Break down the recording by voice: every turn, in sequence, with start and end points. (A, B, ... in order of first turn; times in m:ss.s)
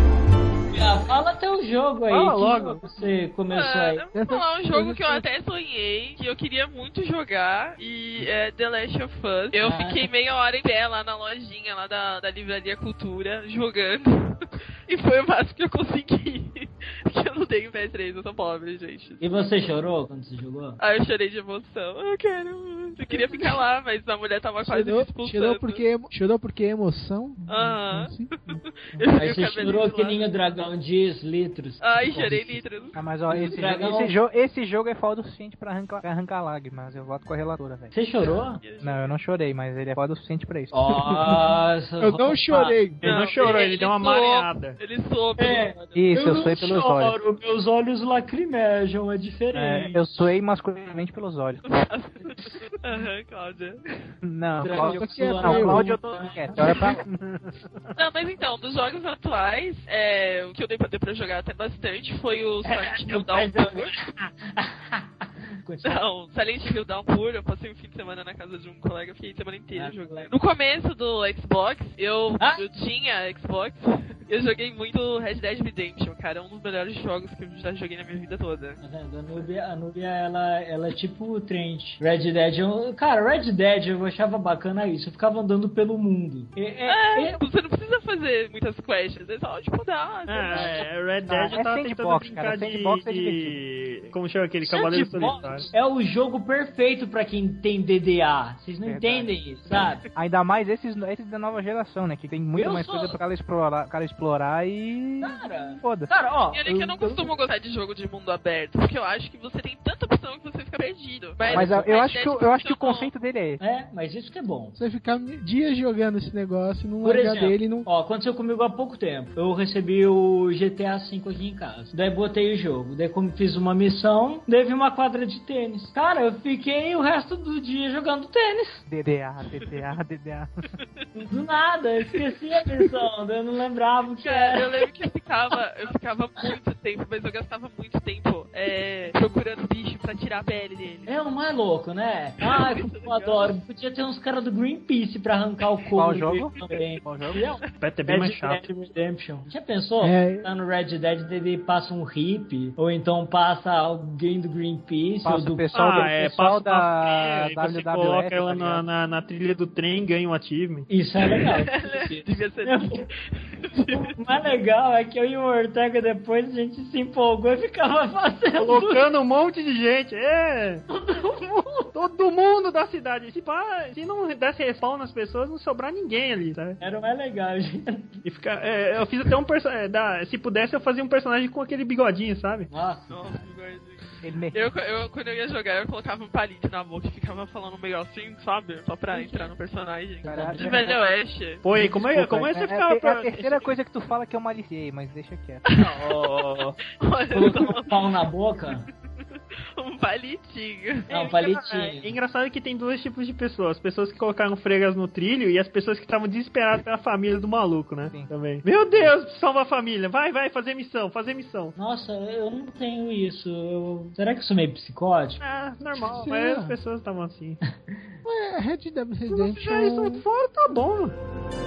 0:00.7-0:04.0 A
0:02.1-0:02.8 B
0:03.5-0:19.5 C
0:04.1-0:05.2 D
0:09.6-0:10.0 A
0:19.2-0:20.8 A
0:20.8-0:25.8 C
0:24.6-0:28.3 D
0:27.5-0:30.3 C
0:29.1-0:32.4 A
0:31.8-0:33.0 C
0:32.2-0:37.9 E
0:33.3-0:34.1 A
0:37.9-0:38.6 A
0:38.3-0:39.1 C
0:38.8-0:41.4 E
0:40.7-0:42.8 A
0:42.0-0:43.0 D
0:43.0-0:44.8 B
0:43.0-0:45.8 C
0:45.4-0:50.0 A
0:45.9-0:47.2 E
0:49.5-0:51.6 E
0:51.6-0:54.1 C
0:54.2-0:57.0 E
0:54.6-0:57.0 A
0:54.8-0:55.9 D
0:57.1-0:57.9 B
0:58.0-1:03.9 C
1:02.6-1:06.0 A
1:05.8-1:18.8 C
1:09.7-1:10.3 A
1:12.4-1:12.6 A
1:18.8-1:27.4 A
1:26.8-1:30.9 C
1:30.3-1:35.7 B
1:30.5-1:31.5 A
1:31.3-1:33.6 E
1:34.6-1:40.0 A
1:38.8-1:39.4 E
1:40.1-1:46.1 E
1:42.5-1:43.2 A
1:45.2-1:47.3 A
1:46.5-1:53.1 C
1:51.4-1:51.9 A
1:51.5-1:53.6 E
1:53.6-1:54.8 A
1:54.8-1:57.9 D
1:57.0-2:08.8 A
2:08.9-2:10.5 E
2:11.1-2:14.8 A
2:14.2-2:21.4 C
2:21.1-2:35.7 A
2:22.4-2:23.6 C
2:26.0-2:27.4 E
2:27.3-2:27.7 C
2:27.8-2:28.7 B
2:30.0-2:30.5 D
2:35.2-2:38.8 E
2:35.7-2:40.9 B
2:40.9-2:43.0 A
2:41.4-2:44.1 C
2:43.9-2:49.0 A
2:48.6-2:50.9 B
2:50.9-2:51.9 A
2:51.9-2:56.8 B
2:56.8-2:58.2 A
2:58.2-3:02.7 B
3:02.7-3:03.2 A
3:03.1-3:11.6 C
3:04.2-3:04.7 E
3:09.1-3:09.5 A
3:10.2-3:10.7 A
3:10.3-3:11.0 E
3:11.6-3:13.7 B
3:11.7-3:15.6 E
3:15.7-3:18.1 C
3:15.8-3:16.7 B
3:17.3-3:18.8 A
3:18.8-3:21.4 C
3:21.1-3:22.1 A
3:21.4-3:31.7 B
3:31.8-3:35.4 A
3:35.4-3:37.6 B
3:35.9-3:36.8 D
3:38.2-3:40.2 D
3:39.3-3:41.1 B